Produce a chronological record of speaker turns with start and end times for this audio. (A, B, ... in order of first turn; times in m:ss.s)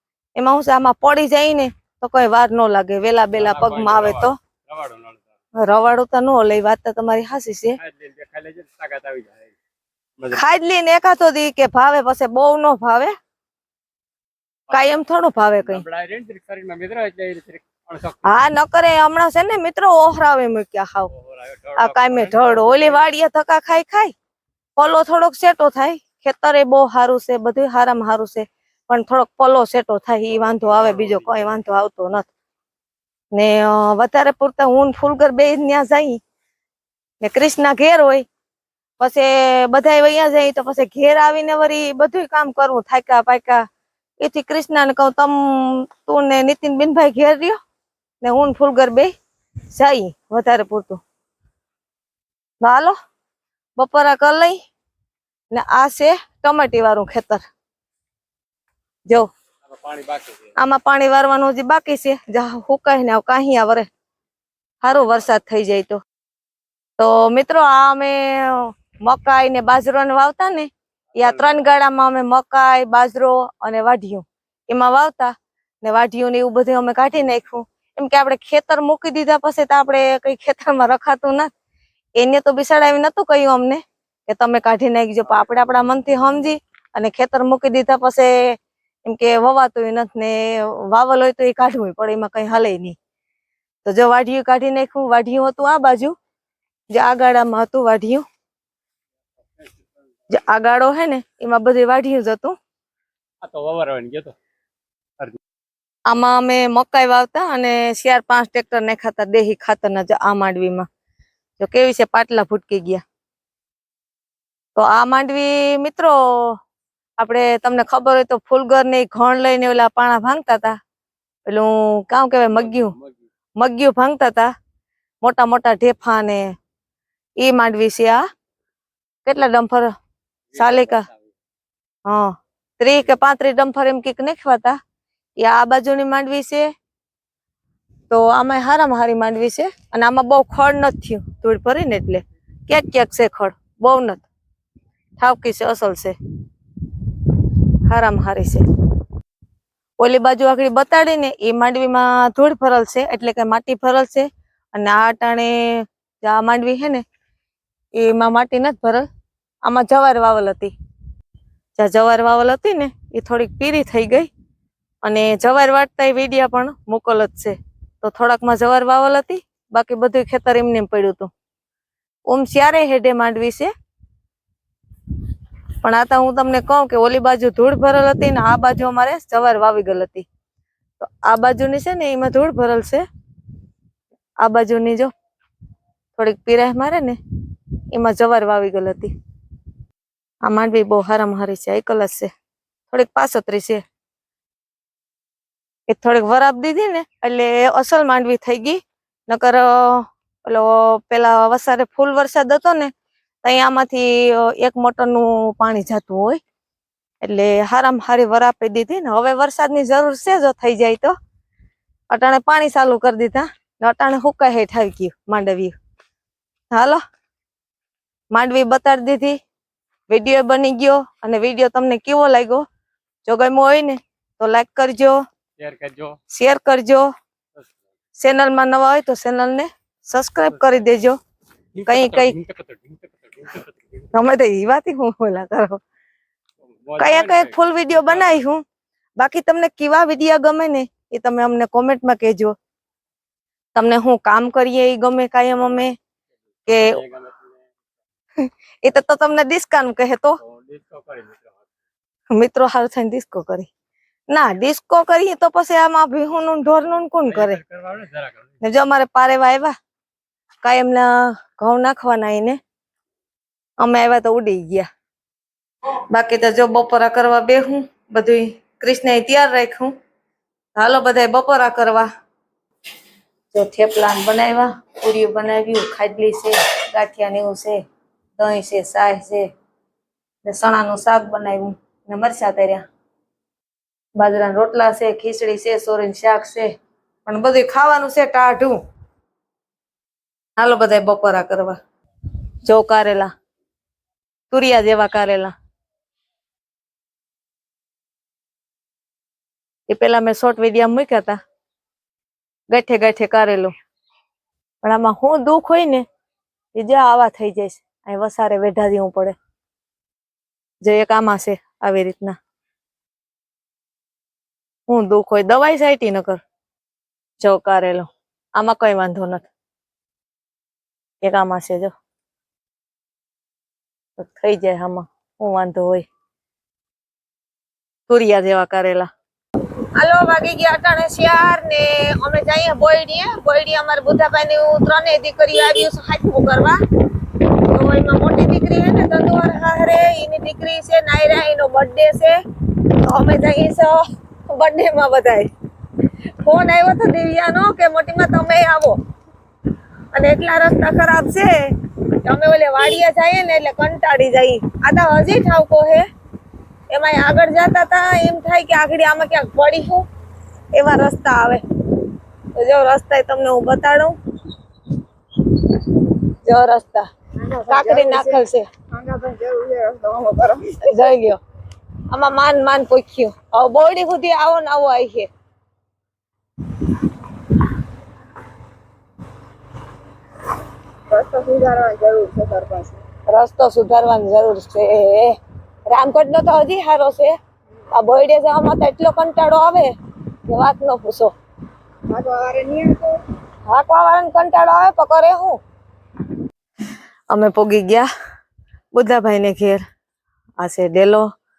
0:00.4-0:04.4 A
0:03.4-0:05.3 B
0:05.6-0:07.8 A
0:07.8-0:09.5 B
0:10.3-0:13.2 A
0:14.7-0:15.8 A
0:15.6-0:18.4 B
0:18.2-0:21.1 A
0:21.1-0:23.0 B
0:21.8-0:24.1 A
0:24.8-0:32.3 A
0:30.3-0:31.6 B
0:33.3-0:36.2 A
0:37.2-0:38.2 A
0:39.0-0:43.6 A
0:44.2-0:47.6 A
0:48.2-0:49.1 A
0:49.7-0:51.0 A
0:52.6-0:53.0 A
0:53.8-0:54.6 A
0:55.5-0:57.4 A
0:59.7-1:00.5 B
1:00.6-1:03.9 A
1:04.8-1:06.0 A
1:07.0-1:21.5 A
1:11.2-1:11.6 B
1:22.2-1:33.0 A
1:33.8-1:36.2 A
1:36.9-1:38.2 A
1:39.6-1:39.9 B
1:40.3-1:42.6 A
1:43.4-1:44.3 B
1:46.1-1:50.9 A
1:51.6-1:53.0 A
1:54.8-1:56.6 A
1:57.2-2:00.8 A
2:01.5-2:03.0 A
2:02.6-2:03.2 B
2:03.6-2:04.5 A
2:05.2-2:06.5 A
2:07.4-2:08.2 A
2:09.2-2:09.9 A
2:10.5-2:11.2 B
2:10.6-2:11.1 A
2:12.1-2:14.8 A
2:15.4-2:16.7 A
2:18.1-2:24.3 A
2:25.2-2:26.2 A
2:27.9-2:28.6 A
2:30.0-2:37.0 A
2:38.0-2:39.1 A
2:39.6-2:40.7 A
2:41.8-2:44.3 A
2:45.0-2:51.3 A
2:52.3-2:53.7 A
2:55.8-3:00.3 A
3:01.0-3:03.0 A
3:04.4-3:05.1 A
3:06.2-3:07.2 A
3:07.9-3:09.1 A
3:10.4-3:12.3 A
3:12.9-3:13.8 A
3:15.9-3:22.9 A
3:23.4-3:26.4 A
3:27.2-3:31.1 A
3:32.1-3:35.8 A
3:36.7-3:37.0 A
3:38.3-3:39.4 A
3:40.1-3:42.6 A
3:43.2-3:45.2 A
3:45.6-3:46.2 B
3:46.3-3:47.1 A
3:48.2-3:51.2 A
3:51.8-3:54.1 B
3:51.9-3:52.4 A
3:54.1-3:55.8 A
3:56.8-3:58.4 B
3:57.0-3:58.6 A
3:59.2-4:02.6 A
4:03.8-4:06.0 A
4:06.7-4:07.0 A
4:06.7-4:07.6 B
4:08.4-4:10.4 A
4:10.4-4:11.6 B
4:12.3-4:13.7 A
4:14.3-4:17.6 A
4:17.2-4:18.5 B
4:18.6-4:19.7 A
4:20.6-4:22.6 A
4:23.8-4:24.9 A
4:26.1-4:29.9 A
4:30.8-4:32.1 A
4:33.5-4:37.8 A
4:38.4-4:39.5 A
4:40.4-4:42.8 A
4:44.2-4:46.7 A
4:47.2-4:48.8 A
4:50.6-4:51.8 A
4:52.6-4:53.3 A
4:54.5-4:55.5 A
4:59.9-5:01.4 A
5:02.7-5:03.7 A
5:04.8-5:06.0 A
5:06.8-5:09.4 A
5:10.8-5:12.4 A
5:14.9-5:16.4 A
5:17.4-5:19.5 A
5:21.2-5:21.9 A
5:24.2-5:26.1 A
5:28.1-5:29.1 A
5:29.9-5:36.8 A
5:37.7-5:45.5 A
5:46.4-5:49.0 A
5:50.1-5:56.1 A
5:56.9-6:00.0 A
6:00.7-6:04.2 A
6:05.8-6:07.1 A
6:07.4-6:08.4 C
6:07.7-6:08.7 A
6:08.9-6:10.8 C
6:10.8-6:11.4 A
6:12.1-6:15.3 A
6:21.1-6:23.0 C
6:23.3-6:25.4 A
6:25.9-6:27.4 A
6:27.9-6:29.9 A
6:30.5-6:31.3 A
6:32.1-6:33.2 C
6:33.7-6:35.6 A
6:37.3-6:38.1 A
6:38.9-6:39.8 A
6:40.6-6:41.3 A